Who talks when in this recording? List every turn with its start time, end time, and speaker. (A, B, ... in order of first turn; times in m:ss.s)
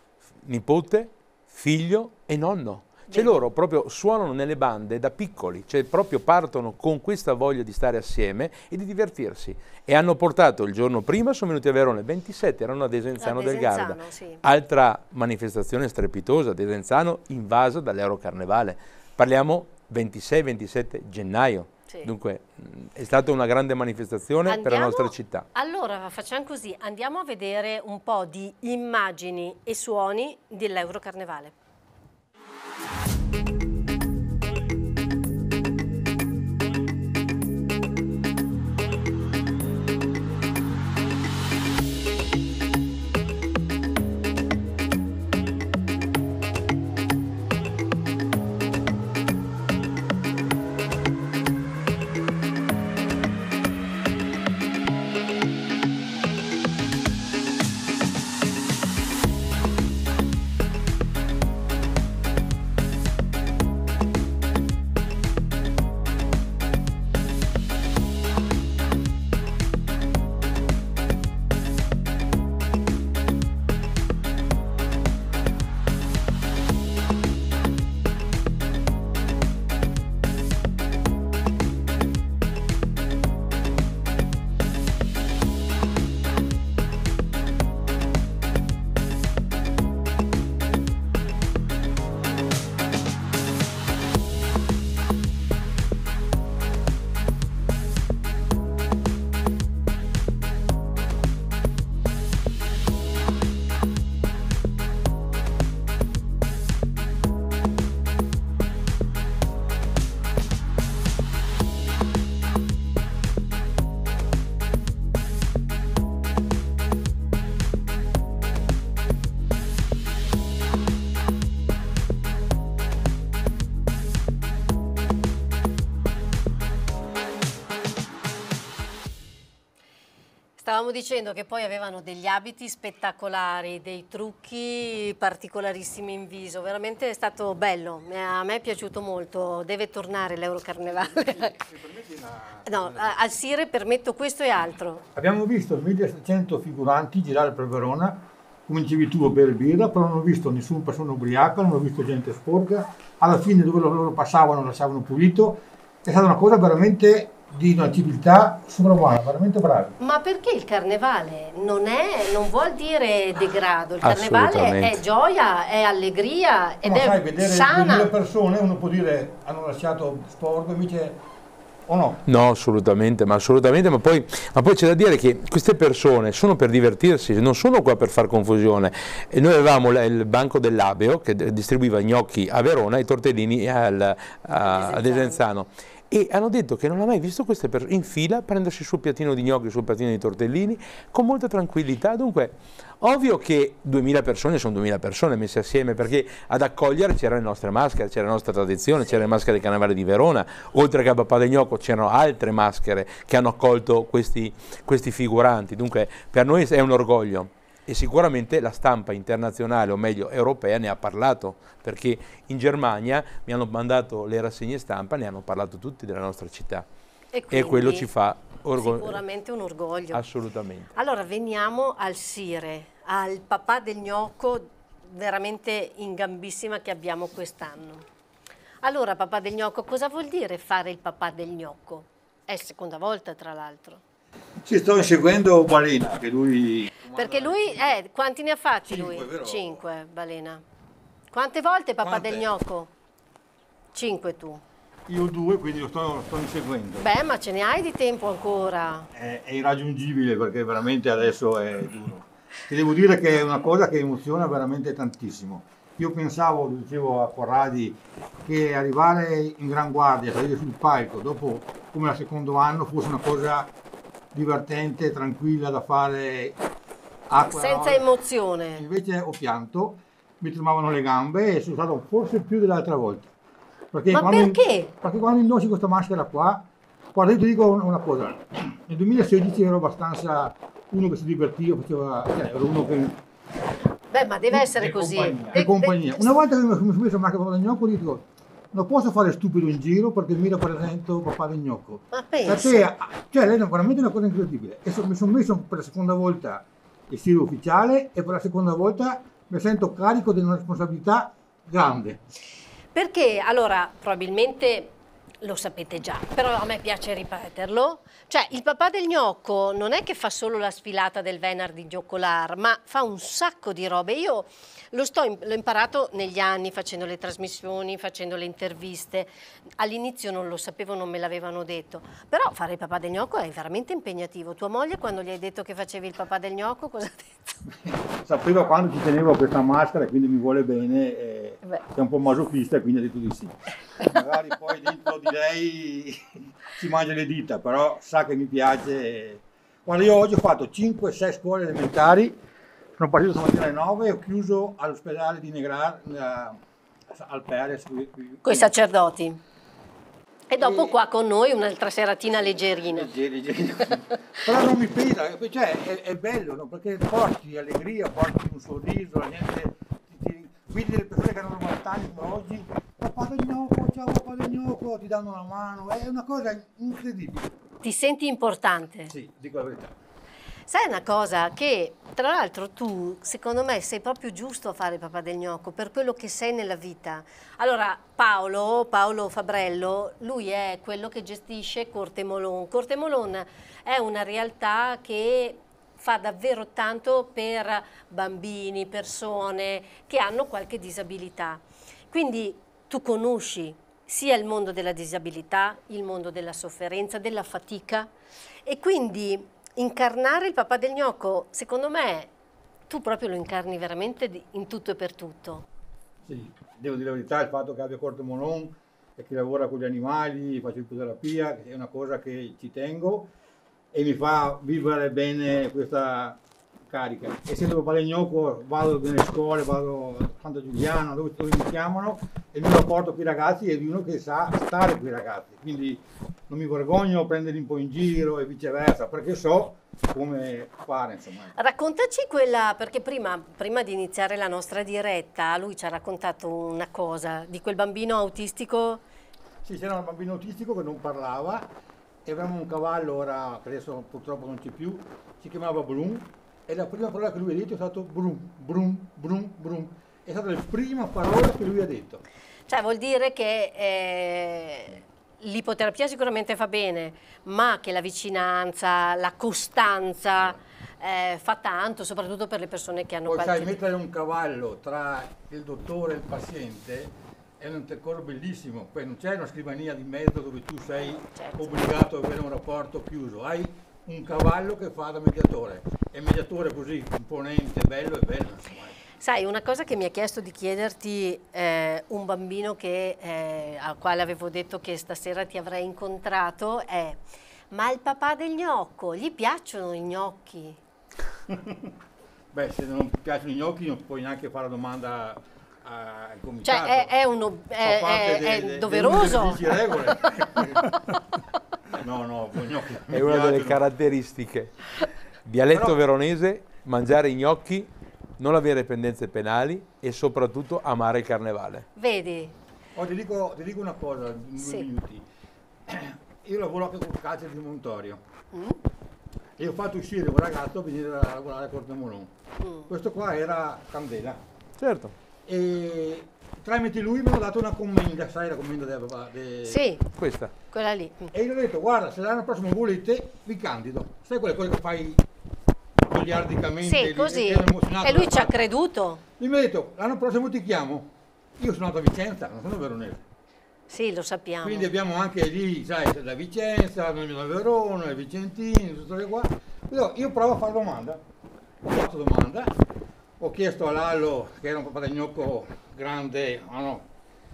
0:00.4-0:25.5 A
0:03.1-0:03.4 B
0:13.2-0:14.4 B
0:24.5-0:31.5 B
2:10.6-2:21.6 B
2:20.9-2:23.2 C
2:22.6-2:25.0 B
2:25.2-2:40.0 C
2:40.0-2:48.1 B
2:44.0-2:45.0 A
2:46.8-2:51.2 C
2:51.9-2:52.2 C
2:52.3-3:36.9 A
3:04.6-3:05.4 B
3:37.3-3:38.1 B
3:37.5-3:39.2 A
3:38.8-3:40.2 B
3:40.1-3:40.9 A
3:41.0-3:48.0 B
3:48.8-3:54.0 B
3:54.6-3:58.0 C
3:57.1-4:00.6 B
3:58.9-3:59.8 C
4:01.3-4:02.9 B
4:02.0-4:02.5 C
4:03.9-4:04.6 B
4:05.1-4:07.1 C
4:07.0-4:09.1 B
4:09.1-4:23.7 C
4:24.3-4:26.6 C
4:27.3-4:28.1 C
4:27.5-4:28.8 B
4:28.8-4:33.3 C
4:33.9-4:43.2 C
4:34.1-4:34.9 B
4:44.1-4:46.3 B
4:44.5-5:02.2 C
4:52.1-4:52.9 B
5:02.9-5:27.6 B
5:27.7-5:42.4 C
5:43.0-5:46.6 C
5:47.1-5:48.7 C
5:48.4-5:49.4 B
5:50.5-5:53.1 B
5:50.6-5:50.9 C
5:52.8-6:07.5 C
6:07.8-6:09.1 B
6:09.1-6:10.0 C
6:10.7-6:38.1 B
6:38.7-6:42.3 B
6:42.9-6:45.6 B
6:46.3-6:53.3 C
6:53.9-7:11.5 C
7:11.6-7:19.0 B
7:19.6-7:21.7 C
7:22.2-7:32.2 C
7:32.7-7:43.8 B
7:43.3-7:59.0 C
7:51.4-7:51.6 B
7:59.2-8:07.2 B
8:07.7-8:10.8 B
8:11.5-8:11.9 C
8:12.5-8:17.1 C
8:16.6-8:19.6 B
8:17.8-8:21.2 C
8:21.9-8:23.8 C
8:23.1-8:24.9 A
8:25.4-8:31.9 A
8:25.7-8:26.0 C
8:32.0-8:32.5 B
8:33.0-8:35.2 C
8:34.6-8:34.9 B
8:35.9-8:38.2 C
8:38.5-8:38.8 B
8:39.6-8:42.3 C
8:42.6-8:42.9 B
8:42.9-8:44.4 C
8:44.8-8:45.1 A
8:45.5-8:49.9 C
8:49.7-8:50.1 B
8:50.2-8:50.5 A
8:50.7-8:51.3 B
8:51.3-8:55.2 C
8:56.0-8:58.6 C
8:56.8-8:59.2 B
8:59.4-9:03.2 C
9:03.9-9:04.9 B
9:04.6-9:11.2 C
9:11.8-9:12.8 C
9:13.4-9:17.1 C